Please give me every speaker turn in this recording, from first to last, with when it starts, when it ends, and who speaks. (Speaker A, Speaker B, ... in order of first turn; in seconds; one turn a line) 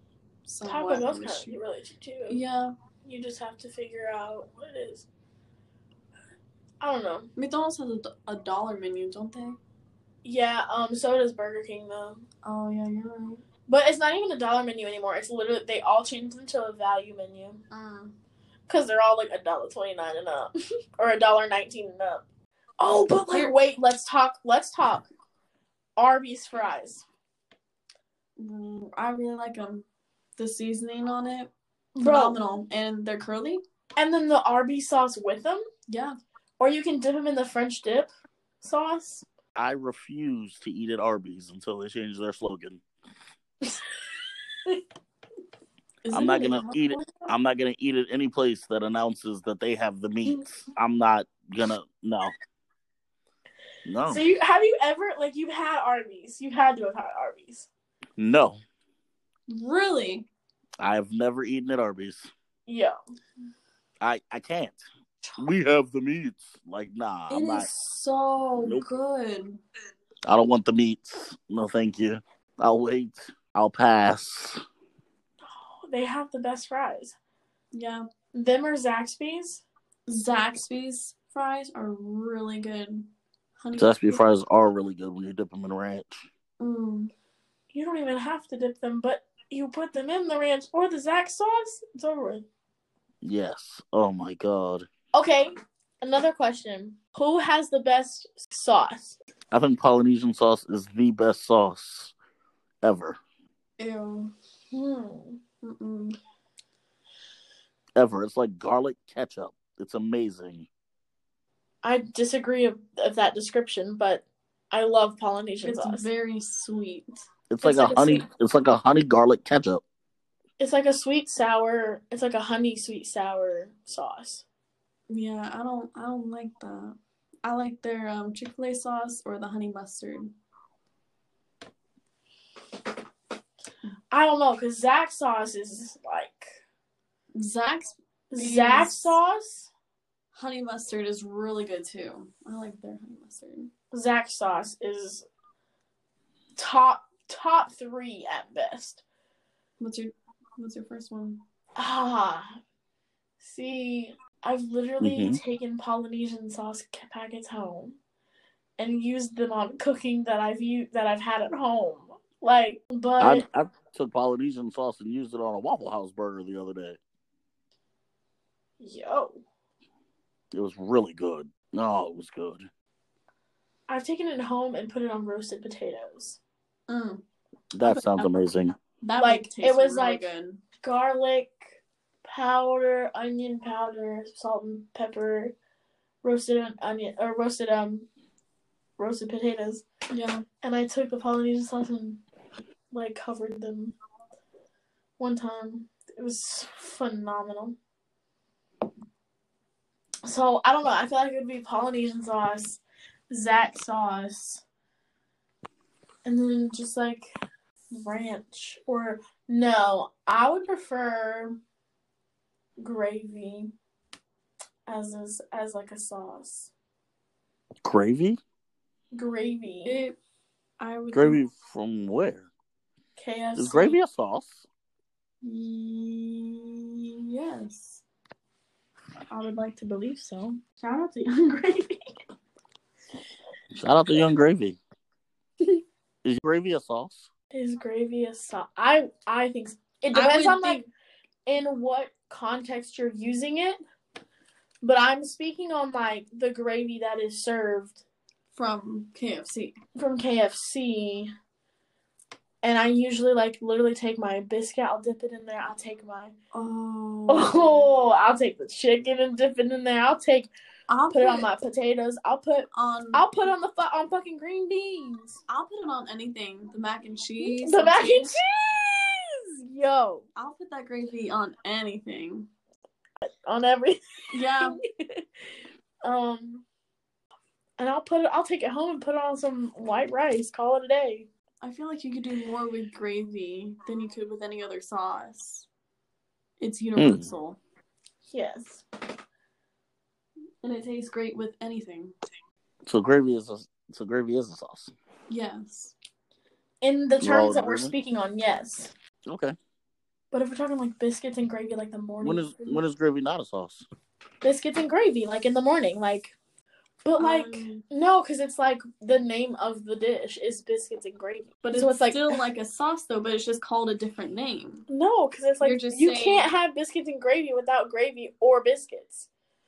Speaker A: 0.5-1.6
Speaker B: 0.6-2.4
Speaker A: 2.3-2.7
Speaker B: 3.0-5.1
Speaker B: 6.8-7.3
Speaker A: 7.4-9.6
Speaker B: 10.2-12.3
Speaker A: 12.4-13.4
Speaker B: 13.7-17.6
Speaker A: 17.7-18.2
Speaker B: 18.7-22.2
Speaker B: 22.8-25.1
Speaker B: 26.0-27.1
Speaker A: 28.4-29.9
Speaker A: 30.4-31.5
Speaker B: 32.0-32.4
Speaker A: 32.0-33.6
Speaker B: 34.0-35.6
Speaker A: 35.9-36.2
Speaker B: 36.6-38.1
Speaker B: 38.6-39.3
Speaker C: 39.5-42.8
Speaker A: 46.0-47.1
Speaker C: 46.1-52.3
Speaker C: 53.9-54.3
Speaker B: 54.1-57.7
Speaker C: 58.2-58.6
Speaker A: 59.5-60.3
Speaker C: 60.8-62.3
Speaker B: 62.7-63.0
Speaker C: 64.0-64.8
Speaker C: 65.4-67.7
Speaker A: 67.3-69.6
Speaker C: 68.6-68.9
Speaker C: 70.2-74.6
Speaker B: 75.6-77.2
Speaker A: 77.7-78.1
Speaker B: 78.3-79.6
Speaker A: 80.1-84.2
Speaker C: 83.8-86.2
Speaker A: 86.6-87.1
Speaker B: 87.7-92.5
Speaker C: 93.2-94.9
Speaker B: 95.1-99.2
Speaker C: 99.5-102.1
Speaker C: 102.8-103.2
Speaker A: 103.8-104.3
Speaker B: 104.7-105.4
Speaker A: 105.6-106.2
Speaker C: 108.0-110.7
Speaker B: 111.8-116.1
Speaker A: 115.6-117.2
Speaker C: 117.5-119.8
Speaker B: 117.6-118.2
Speaker B: 120.6-124.4
Speaker A: 125.1-130.3
Speaker B: 134.1-136.6
Speaker A: 137.3-139.2
Speaker B: 138.3-139.7
Speaker A: 140.3-143.7
Speaker B: 143.9-145.3
Speaker B: 146.6-149.0
Speaker A: 149.8-151.4
Speaker B: 151.8-152.6
Speaker B: 153.4-158.0
Speaker C: 155.0-155.4
Speaker B: 158.8-163.4
Speaker C: 163.2-167.0
Speaker B: 168.8-169.4
Speaker C: 170.5-172.7
Speaker B: 173.9-176.4
Speaker A: 176.9-177.2
Speaker C: 177.7-178.7
Speaker A: 177.8-178.3
Speaker A: 179.0-180.6
Speaker B: 179.2-180.3
Speaker B: 180.8-185.5
Speaker B: 186.2-188.1
Speaker B: 189.0-189.8
Speaker A: 190.1-190.4
Speaker B: 190.6-192.2
Speaker B: 192.9-193.9
Speaker B: 195.2-197.8
Speaker B: 200.2-204.6
Speaker B: 206.2-207.3
Speaker B: 207.9-211.6
Speaker B: 212.8-213.7
Speaker B: 214.9-216.7
Speaker C: 217.8-218.4
Speaker B: 219.1-220.0
Speaker A: 219.8-220.2
Speaker A: 220.8-221.4
Speaker C: 221.1-222.5
Speaker B: 223.2-224.0
Speaker C: 223.6-224.7
Speaker A: 225.4-228.0
Speaker A: 229.3-229.8
Speaker B: 229.8-232.0
Speaker C: 233.8-234.8
Speaker C: 236.2-237.3
Speaker B: 237.5-240.9
Speaker A: 240.1-240.8
Speaker B: 241.5-243.8
Speaker B: 244.8-248.0
Speaker A: 248.5-249.8
Speaker B: 249.9-251.3
Speaker B: 252.6-256.3
Speaker A: 256.5-257.9
Speaker B: 257.3-260.5
Speaker A: 260.9-261.5
Speaker B: 261.1-265.4
Speaker A: 262.7-263.3
Speaker A: 265.5-268.3
Speaker B: 267.4-270.3
Speaker A: 270.4-272.5
Speaker B: 273.3-275.3
Speaker A: 274.3-274.8
Speaker B: 276.0-276.6
Speaker B: 277.8-281.3
Speaker A: 281.6-285.7
Speaker A: 286.6-287.6
Speaker C: 287.0-287.3
Speaker B: 288.3-288.8
Speaker A: 290.6-292.1
Speaker C: 292.9-294.9
Speaker A: 295.3-295.9
Speaker B: 296.8-298.9
Speaker C: 297.2-297.9
Speaker C: 299.3-299.6
Speaker B: 300.3-302.8
Speaker C: 302.2-303.9
Speaker B: 304.4-306.4
Speaker B: 307.1-312.4
Speaker A: 307.2-307.8
Speaker A: 311.6-314.9
Speaker B: 314.9-319.3
Speaker A: 315.6-316.5